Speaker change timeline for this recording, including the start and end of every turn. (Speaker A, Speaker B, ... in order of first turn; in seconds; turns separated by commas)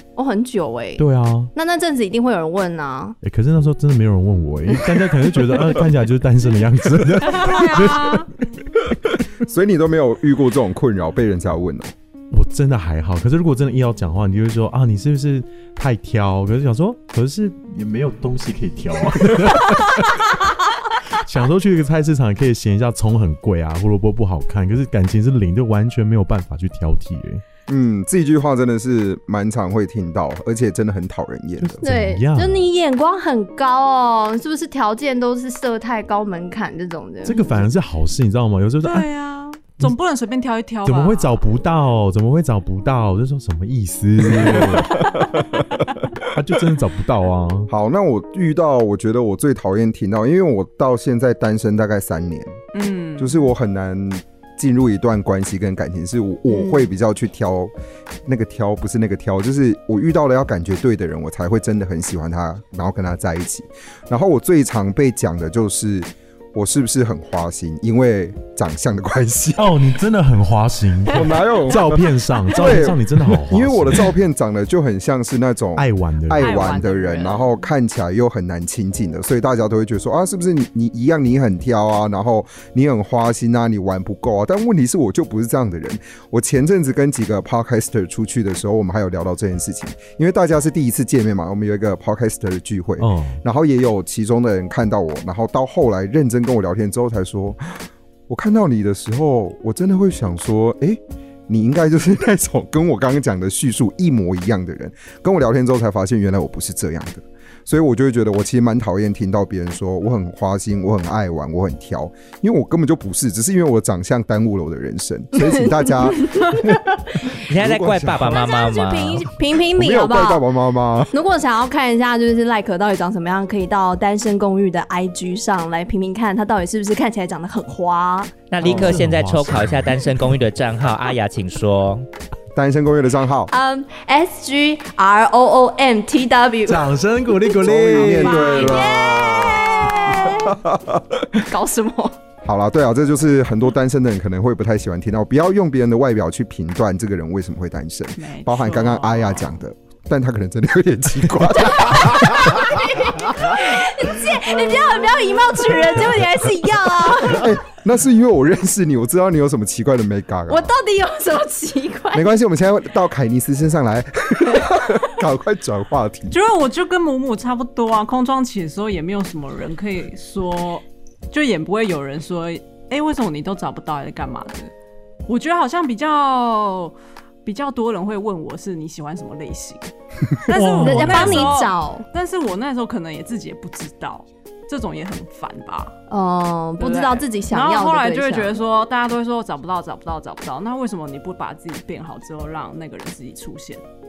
Speaker A: 0.1-1.0, Speaker B: 1.0-1.5, Speaker A: 1.5-3.2, Speaker B: 3.2-8.3, Speaker C: 7.3-8.3, Speaker D: 9.4-11.9, Speaker B: 12.3-20.4, Speaker B: 21.1-27.4, Speaker D: 27.7-31.8, Speaker B: 31.6-32.6, Speaker A: 31.8-37.6, Speaker B: 37.2-39.1, Speaker C: 38.8-41.4, Speaker B: 40.8-45.1, Speaker D: 44.2-45.6, Speaker B: 46.3-47.7, Speaker D: 47.7-52.6, Speaker C: 52.7-53.4, Speaker D: 53.2-57.7, Speaker D: 58.2-69.8, Speaker B: 69.6-74.1, Speaker D: 71.1-116.8, Speaker B: 75.8-76.7, Speaker C: 76.4-77.5, Speaker B: 93.0-93.4, Speaker A: 115.4-117.4, Speaker E: 117.4-119.3, Speaker D: 117.5-118.4, Speaker A: 118.2-120.4, Speaker D: 119.7-121.1, Speaker A: 121.1-128.3, Speaker E: 128.5-132.1, Speaker B: 128.6-130.1, Speaker D: 132.5-133.5, Speaker A: 133.5-136.9, Speaker B: 136.7-138.5, Speaker A: 137.5-140.6, Speaker D: 137.6-141.4, Speaker C: 138.3-139.9, Speaker A: 141.5-142.2, Speaker D: 142.4-152.6, Speaker C: 148.2-149.5, Speaker A: 151.8-157.5, Speaker D: 157.3-160.7, Speaker A: 160.5-162.3, Speaker D: 162.1-166.3, Speaker C: 166.3-174.7, Speaker C: 175.3-179.9, Speaker C: 180.4-185.9, Speaker B: 180.5-181.5, Speaker A: 180.8-182.1, Speaker A: 186.1-188.5, Speaker C: 186.8-193.8